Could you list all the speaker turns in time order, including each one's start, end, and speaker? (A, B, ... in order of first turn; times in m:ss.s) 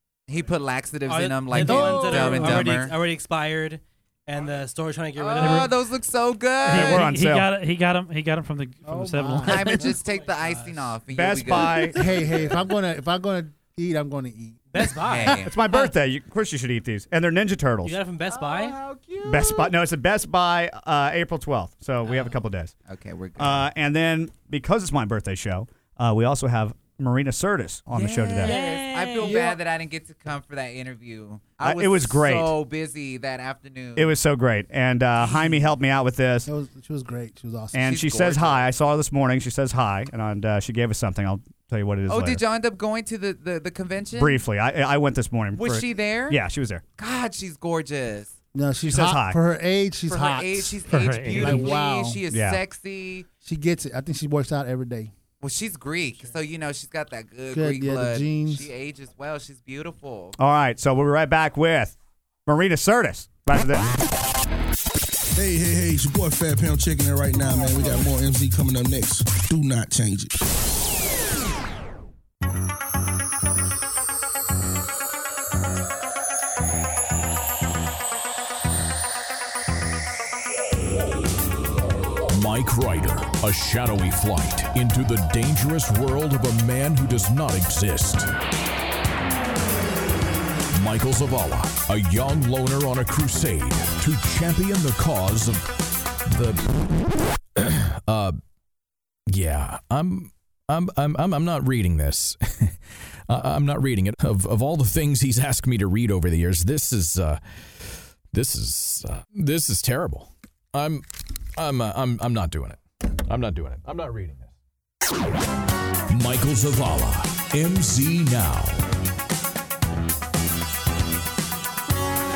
0:00.3-0:02.9 A
0:01.1-0:05.8 B
0:01.5-0:02.6 C
0:05.2-0:07.1 A
0:05.4-0:05.7 D
0:06.6-0:09.8 D
0:06.7-0:07.5 E
0:08.8-0:09.8 C
0:09.4-0:12.0 A
0:09.5-0:11.9 B
0:11.1-0:12.0 E
0:11.9-0:15.4 C
0:14.7-0:15.9 B
0:15.0-0:15.5 A
0:15.4-0:18.0 E
0:17.8-0:18.8 B
0:18.3-0:19.7 A
0:19.2-0:22.7 E
0:22.1-0:22.3 B
0:22.9-0:23.7 A
0:23.4-0:28.6 E
0:27.9-0:34.1 A
0:28.4-0:29.5 B
0:29.3-0:29.5 C
0:31.6-0:32.5 E
0:34.0-0:36.5 E
0:35.2-0:35.5 A
0:36.4-0:37.9 C
0:37.7-0:42.4 E
0:37.8-0:38.6 A
0:42.1-0:44.4 A
0:44.2-0:46.8 E
0:45.5-0:46.4 A
0:47.0-0:48.4 A
0:48.5-0:52.2 C
0:48.8-0:49.4 E
0:50.1-0:53.3 A
0:50.9-0:51.7 D
0:52.3-0:52.6 E
0:53.4-0:55.1 C
0:55.4-1:00.4 A
0:57.5-0:58.7 C
1:00.4-1:01.9 E
1:02.4-1:03.9 E
1:05.3-1:10.4 F
1:07.7-1:08.0 C
1:22.3-1:28.3 G
1:30.7-1:35.7 G
1:36.2-1:38.4 G
1:39.3-1:54.5 G
1:56.1-1:58.8 G